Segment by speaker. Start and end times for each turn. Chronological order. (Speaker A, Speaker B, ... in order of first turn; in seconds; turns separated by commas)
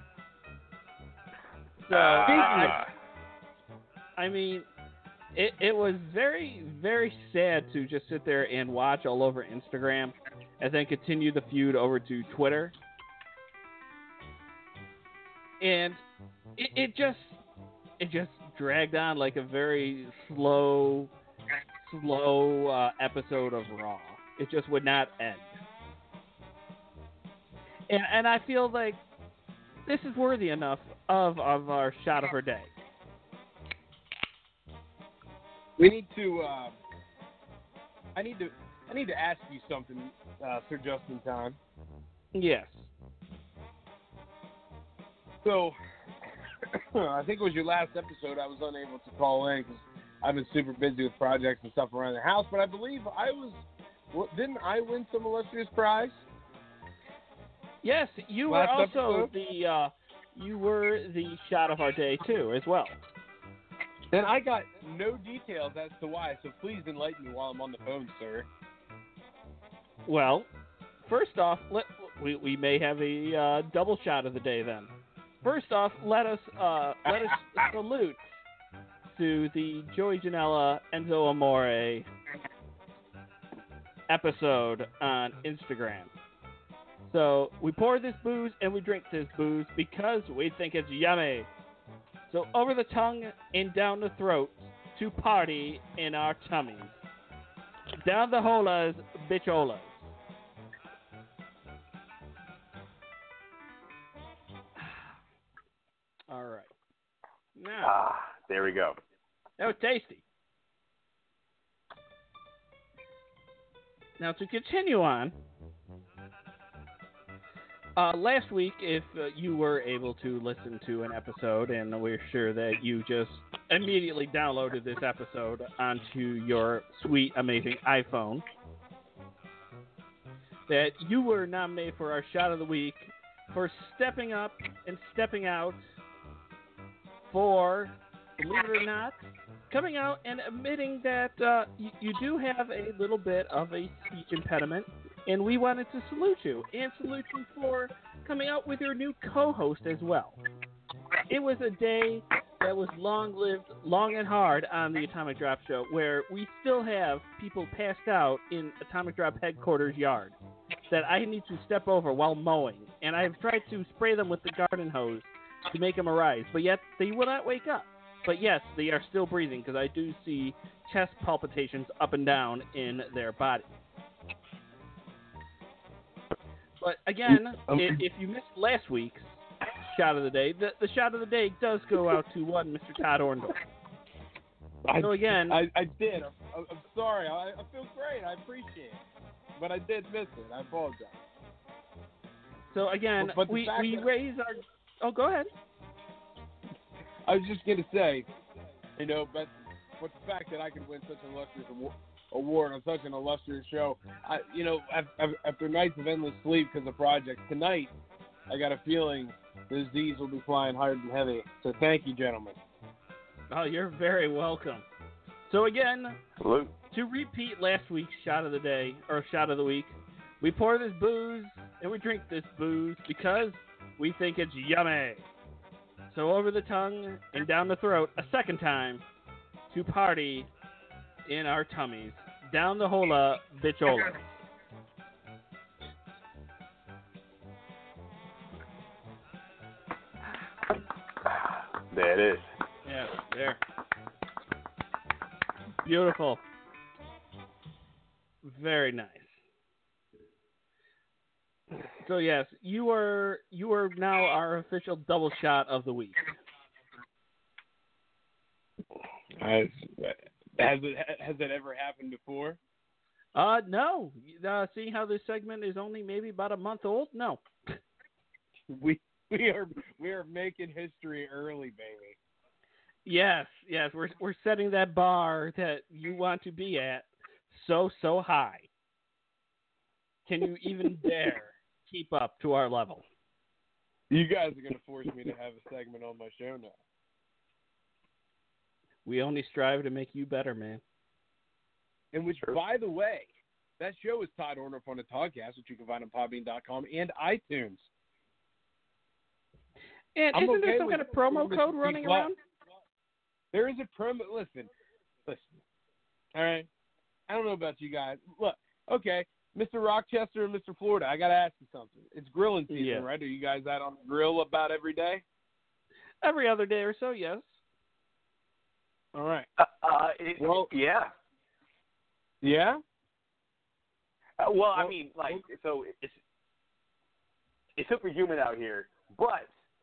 Speaker A: 1.9-2.8, Speaker B: 1.9-2.9, Speaker C: 2.3-2.8, Speaker A: 4.2-4.7, Speaker A: 5.3-12.7, Speaker A: 15.6-16.0, Speaker A: 16.6-17.4, Speaker A: 18.0-21.1, Speaker A: 21.8-25.6, Speaker A: 27.9-29.0, Speaker A: 29.9-32.7, Speaker C: 35.8-36.8, Speaker C: 38.1-41.6, Speaker A: 42.3-42.9, Speaker C: 45.4-45.8, Speaker C: 46.7-56.2, Speaker A: 57.8-63.0, Speaker C: 58.5-59.3, Speaker C: 64.1-68.5, Speaker A: 70.0-70.5, Speaker A: 71.0-78.2, Speaker A: 79.1-82.1, Speaker A: 84.1-86.1, Speaker A: 87.0-91.5, Speaker A: 92.3-97.0, Speaker A: 98.0-100.1, Speaker A: 106.3-106.7, Speaker A: 107.5-107.9, Speaker B: 107.8-109.0, Speaker A: 109.6-110.2, Speaker A: 114.2-115.3, Speaker A: 118.0-128.4, Speaker A: 130.7-135.8, Speaker A: 137.3-150.4, Speaker A: 151.3-160.3, Speaker A: 160.9-173.7, Speaker A: 176.8-179.3, Speaker C: 177.7-178.0, Speaker A: 179.8-183.6, Speaker C: 184.8-189.0, Speaker A: 185.0-185.6, Speaker C: 189.6-191.2, Speaker A: 192.7-195.5, Speaker C: 193.2-194.1, Speaker C: 197.2-198.2, Speaker C: 199.0-207.9, Speaker C: 208.5-212.6, Speaker A: 213.5-214.9, Speaker A: 215.5-216.2, Speaker B: 216.4-216.7, Speaker A: 216.9-225.2, Speaker A: 226.1-229.0, Speaker A: 229.7-230.5, Speaker A: 231.2-234.2, Speaker B: 241.2-242.4, Speaker A: 242.8-243.6, Speaker A: 245.8-246.4, Speaker A: 248.4-249.4, Speaker A: 252.0-256.3, Speaker C: 259.4-262.6, Speaker A: 263.3-267.8, Speaker C: 268.7-272.1, Speaker A: 273.1-278.7, Speaker A: 280.3-283.0, Speaker C: 284.1-286.7, Speaker A: 289.0-290.8, Speaker C: 292.1-293.3, Speaker C: 293.8-297.9, Speaker A: 300.1-302.4, Speaker C: 300.3-302.3, Speaker C: 303.5-304.7, Speaker C: 305.2-305.5, Speaker C: 306.3-306.7, Speaker C: 307.3-315.2, Speaker A: 312.7-313.1, Speaker A: 316.2-317.6, Speaker C: 319.1-319.5, Speaker B: 319.6-321.1, Speaker C: 320.4-320.7, Speaker C: 322.4-322.8, Speaker B: 324.4-326.2, Speaker C: 324.7-325.4, Speaker B: 327.8-329.5